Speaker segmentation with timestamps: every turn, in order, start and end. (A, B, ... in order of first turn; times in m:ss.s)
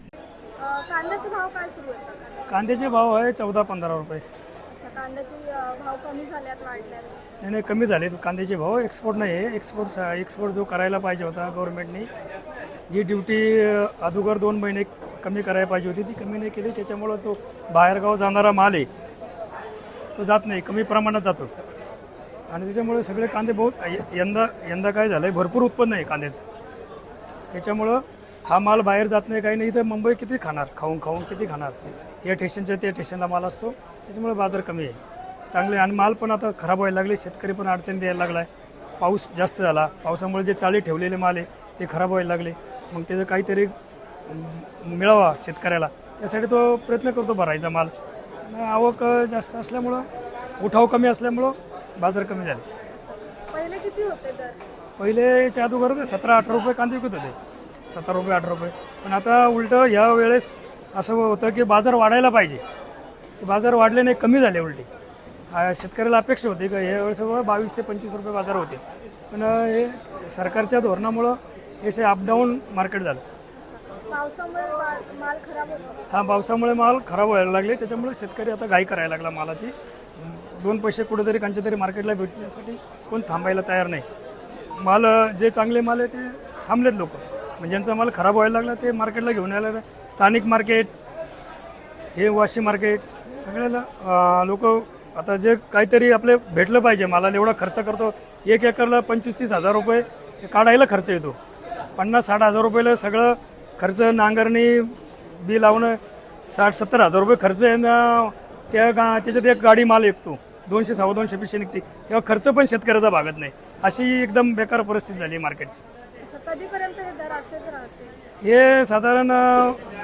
0:00.6-0:02.5 A
0:02.5-0:04.2 B
0:04.7-0:07.2 A
0:07.4-0:12.1 B
0:12.9-0:18.9 B
0:20.2-0:21.5 B
0:22.5-0:26.4 B
0:27.5-0:35.0 B
0:35.5-0:38.5 B
0:39.0-0:43.7 B
0:44.3-0:47.9 B
0:48.4-0:50.1 B
0:50.6-0:52.6 B
0:53.5-0:54.6 A
0:55.0-0:57.4 B
0:57.9-1:02.6 B
1:03.4-1:04.9 B
1:05.5-1:13.2 B
1:14.1-1:16.1 A
1:16.1-1:24.0 B
1:24.8-1:30.9 B
1:32.2-1:41.4 B
1:42.0-1:46.0 B
1:46.5-1:55.8 B
1:56.2-1:58.2 A
1:58.4-1:59.8 B